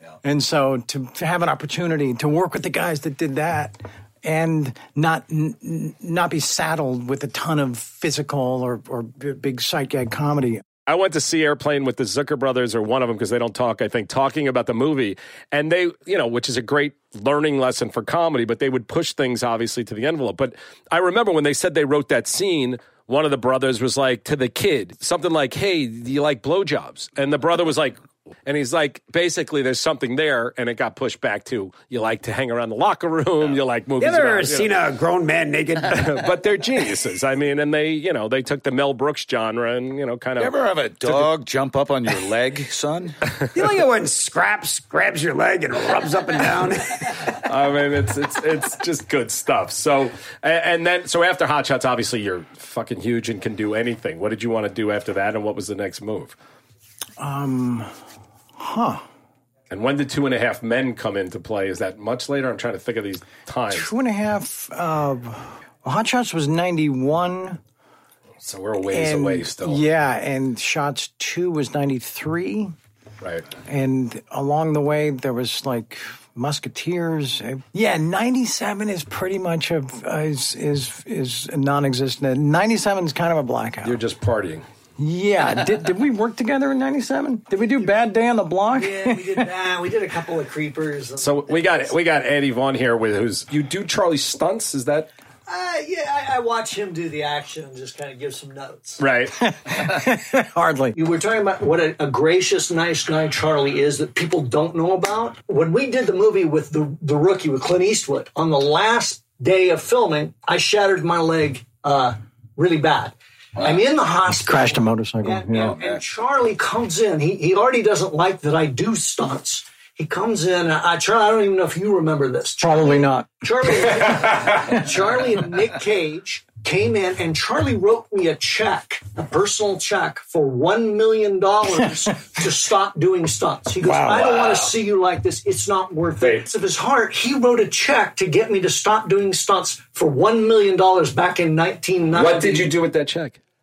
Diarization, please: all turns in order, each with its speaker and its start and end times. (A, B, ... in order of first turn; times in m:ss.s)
0:00.2-0:10.6 A
0:10.9-0:34.7 B
0:34.0-0:36.1 C
0:35.9-0:40.5 B
0:40.4-0:43.2 D
0:43.5-0:47.2 C
0:47.4-0:56.3 B
0:57.2-0:57.9 A
0:58.6-0:59.0 A
0:59.7-1:03.9 B
1:03.7-1:07.6 A
1:08.4-1:09.8 B
1:08.9-1:12.7 A
1:13.6-1:24.0 A
1:23.8-1:24.6 B
1:25.0-1:29.5 A
1:28.7-1:31.8 E
1:31.2-1:35.1 B
1:35.5-1:39.0 E
1:39.0-1:39.4 B
1:39.4-1:41.0 A
1:40.9-2:22.7 E
1:54.3-1:55.8 A
2:02.6-2:03.4 A
2:13.8-2:14.7 B
2:16.2-2:16.5 B
2:22.1-2:23.4 B